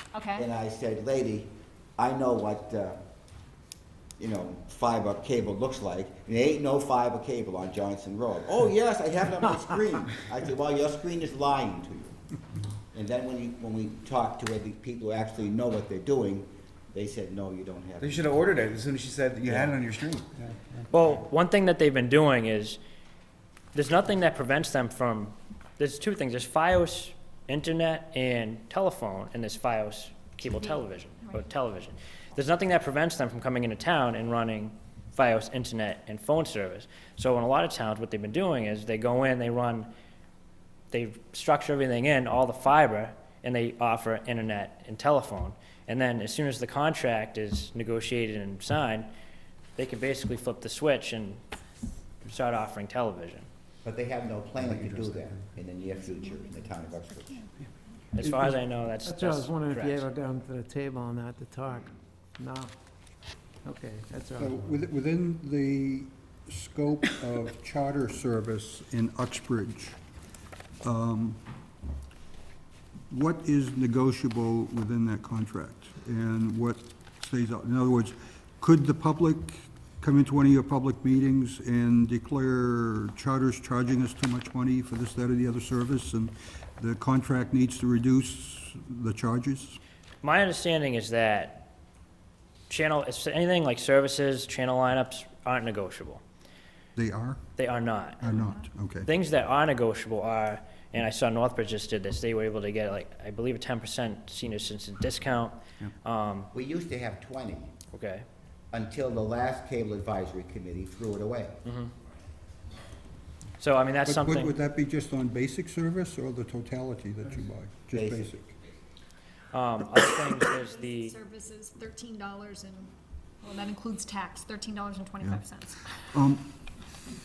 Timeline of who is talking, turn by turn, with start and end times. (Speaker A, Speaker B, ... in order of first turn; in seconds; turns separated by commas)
Speaker A: 0.1-0.5, Speaker B: 0.3-3.0, Speaker B: 4.2-12.2, Speaker B: 12.9-18.4, Speaker C: 18.0-20.3, Speaker B: 19.5-19.8, Speaker D: 20.9-22.8, Speaker D: 23.7-39.9, Speaker A: 30.4-31.5, Speaker D: 40.9-49.1, Speaker D: 49.8-51.4, Speaker D: 52.2-53.5, Speaker B: 53.8-57.4, Speaker C: 54.6-55.4, Speaker A: 56.3-56.5, Speaker A: 57.1-57.5, Speaker D: 58.1-60.1, Speaker E: 58.2-62.7, Speaker E: 63.6-64.8, Speaker F: 64.4-70.0, Speaker F: 70.8-71.4, Speaker F: 73.1-89.8, Speaker D: 90.2-91.7, Speaker D: 92.7-96.2, Speaker F: 97.0-97.4, Speaker D: 97.6-98.4, Speaker F: 98.2-99.1, Speaker D: 99.0-106.5, Speaker B: 106.5-107.7, Speaker D: 107.9-108.2, Speaker B: 108.7-111.5, Speaker D: 111.6-111.9, Speaker D: 113.6-114.6, Speaker F: 114.0-118.5, Speaker B: 117.9-118.3, Speaker D: 119.5-121.1, Speaker A: 120.5-125.9, Speaker F: 126.1-126.5